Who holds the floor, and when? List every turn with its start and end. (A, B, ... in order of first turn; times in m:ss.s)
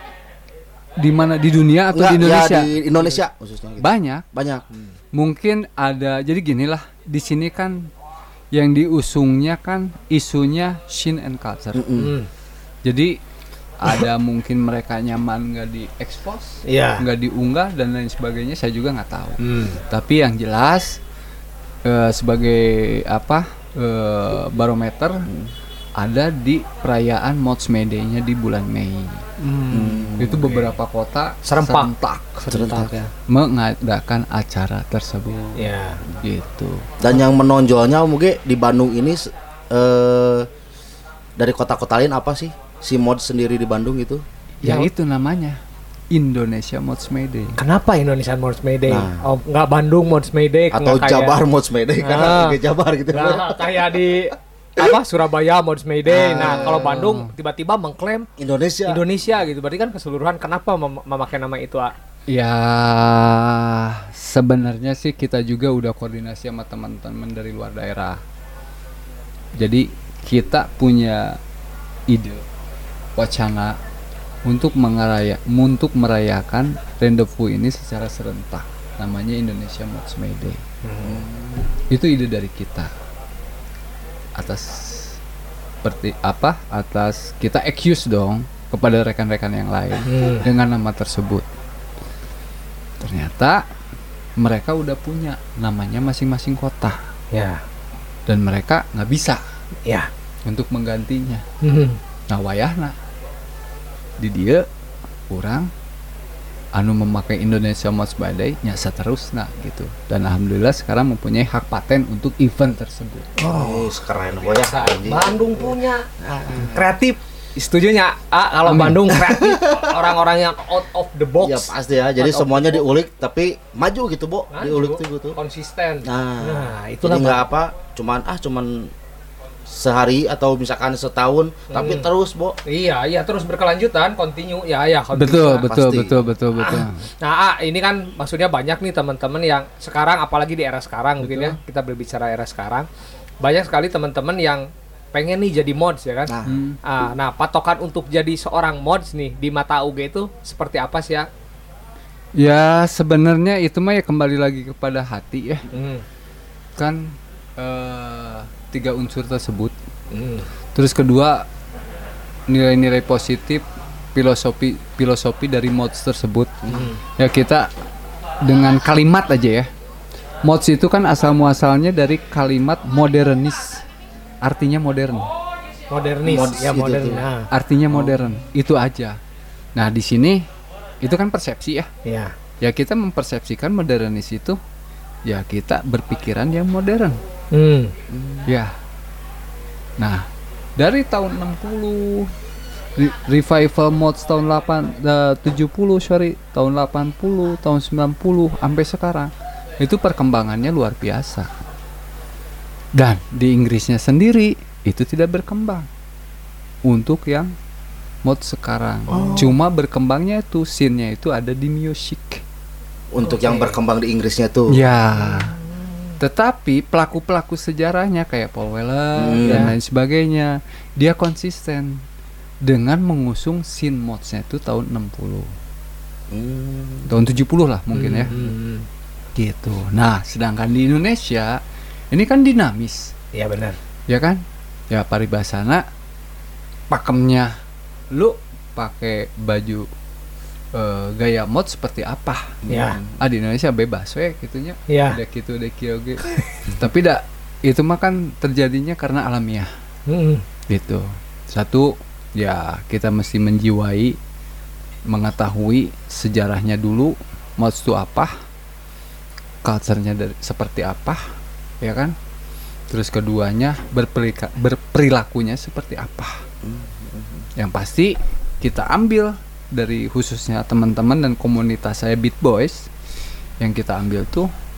0:01.0-0:02.8 A
0:01.9-0:04.6 B
0:03.8-0:04.2 A
0:05.1-0:07.9 A
0:08.5-0:11.9 A
0:11.7-0:12.2 B
0:12.0-0:12.3 C
0:12.8-0:13.2 A
0:13.8-0:21.0 A
0:16.7-0:17.0 C
0:19.4-0:19.8 C
0:21.8-0:25.2 A
0:25.2-0:25.5 B
0:26.0-0:29.2 A
0:29.4-0:30.7 C
0:29.7-0:30.4 B
0:30.2-0:32.4 A
0:31.4-0:33.1 C
0:32.5-0:32.9 B
0:33.3-0:35.6 A
0:35.6-0:36.0 C
0:36.2-0:36.9 A
0:37.0-0:40.5 B
0:41.4-0:44.2 B
0:44.6-0:45.6 A
0:46.1-0:47.6 A
0:47.6-0:51.4 C
0:48.9-0:49.3 B
0:50.7-0:53.9 B
0:52.0-0:52.6 C
0:53.1-0:58.3 C
0:56.0-0:57.1 B
0:56.4-0:57.3 A
0:58.4-0:59.0 B
0:58.8-1:01.9 C
1:02.3-1:08.2 A
1:09.6-1:11.4 A
1:12.1-1:12.4 A
1:13.2-1:13.8 A
1:14.4-1:20.6 A
1:20.8-1:21.2 C
1:21.0-1:21.7 B
1:21.9-1:22.9 A
1:24.4-1:25.2 A
1:25.8-1:31.4 A
1:30.1-1:30.4 C
1:33.0-1:33.6 A
1:34.4-1:37.0 A
1:37.3-1:37.6 C
1:38.3-1:39.4 A
1:40.4-1:41.4 A
1:41.6-1:42.0 C
1:42.3-1:42.9 A
1:44.2-1:44.6 A
1:45.3-1:45.7 A
1:46.7-1:53.3 A
1:53.4-1:53.9 C
1:53.4-1:56.9 B
1:54.4-2:02.8 C
1:58.7-1:59.0 A
1:59.1-2:00.0 B
2:01.4-2:05.3 B
2:04.5-2:07.4 C
2:06.0-2:08.9 B
2:09.7-2:12.6 B
2:11.7-2:12.1 C
2:12.7-2:15.7 C
2:15.1-2:17.1 A
2:15.7-2:16.2 B
2:16.6-2:22.8 C
2:21.2-2:21.6 A
2:23.4-2:31.3 C
2:26.3-2:26.6 B
2:26.4-2:26.8 A
2:32.4-2:35.7 A
2:35.7-2:36.0 C
2:36.8-2:39.7 A
2:40.1-2:40.5 C
2:40.7-2:41.4 A
2:42.5-2:46.6 A
2:46.6-2:46.9 B
2:46.7-2:47.0 C
2:47.2-2:47.7 A
2:48.4-2:49.7 A
2:50.4-2:53.8 A
2:54.4-2:55.3 A
2:55.9-2:57.5 C
2:56.2-2:57.2 B
2:57.5-2:59.2 A
2:57.9-2:58.2 B
2:59.8-3:00.4 A
3:01.0-3:01.9 A
3:02.0-3:02.3 C
3:02.6-3:04.6 A
3:05.2-3:07.2 A
3:07.5-3:07.9 C
3:08.1-3:08.5 B
3:08.4-3:08.7 A
3:10.0-3:10.2 A
3:10.8-3:12.3 A
3:13.0-3:21.5 A
3:22.9-3:25.9 A
3:26.8-3:27.5 A
3:28.2-3:32.4 A
3:29.1-3:29.6 C
3:29.1-3:29.4 B
3:33.1-3:34.8 B
3:33.2-3:33.8 C
3:34.7-3:35.6 A
3:35.2-3:36.1 C
3:36.2-3:42.0 A
3:39.2-3:39.7 B
3:39.4-3:39.7 C
3:42.6-3:45.5 A
3:46.3-3:47.1 B
3:47.1-3:48.5 A
3:47.9-3:48.8 C
3:49.4-3:51.6 A
3:52.1-3:53.1 A
3:53.3-3:53.8 C
3:54.1-3:55.8 A
3:56.9-3:57.5 A
3:58.1-3:59.9 A
4:00.7-4:09.7 A
4:02.6-4:03.0 B
4:02.7-4:03.0 C
4:04.9-4:05.2 C
4:10.1-4:10.4 C
4:10.7-4:14.2 A
4:15.1-4:18.3 A
4:19.6-4:21.2 A
4:21.8-4:22.1 A
4:22.9-4:26.4 A
4:26.6-4:27.5 B
4:27.6-4:32.9 A
4:33.6-4:34.5 A